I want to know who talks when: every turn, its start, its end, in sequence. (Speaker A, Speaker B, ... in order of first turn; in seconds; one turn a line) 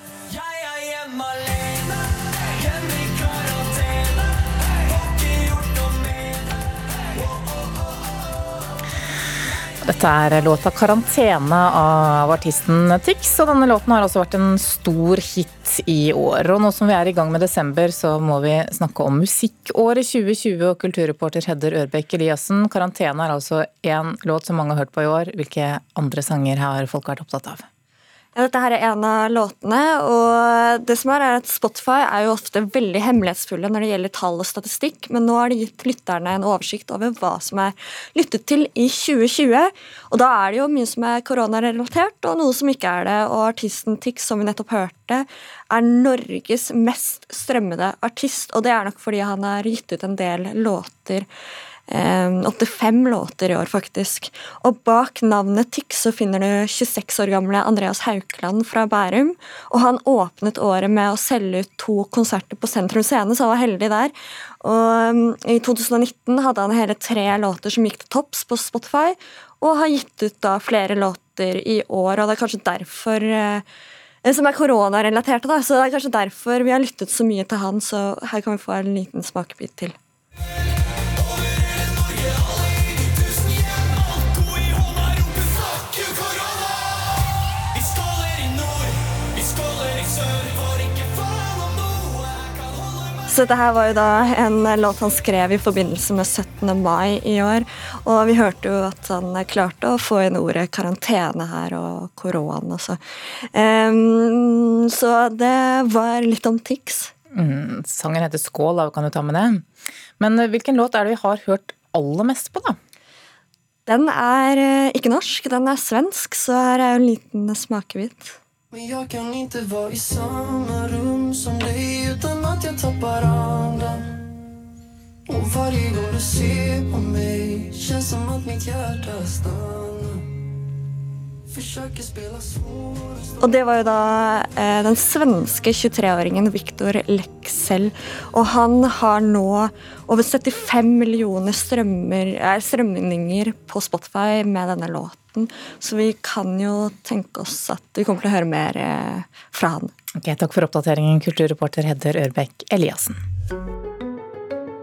Speaker A: 0.3-4.3
Speaker A: 5.0-6.4
Speaker B: 9.8-27.6
Speaker C: 28.3-51.3
Speaker C: 51.9-73.6
Speaker C: 74.2-80.0
Speaker A: 81.9-86.6
Speaker A: 87.8-92.2
Speaker C: 93.3-107.1
Speaker B: 107.3-109.7
Speaker B: 110.2-112.8
Speaker C: 113.8-118.4
Speaker A: 118.7-124.0
Speaker A: 125.3-130.3
Speaker A: 131.5-133.6
Speaker C: 133.4-149.9
Speaker B: 150.2-153.2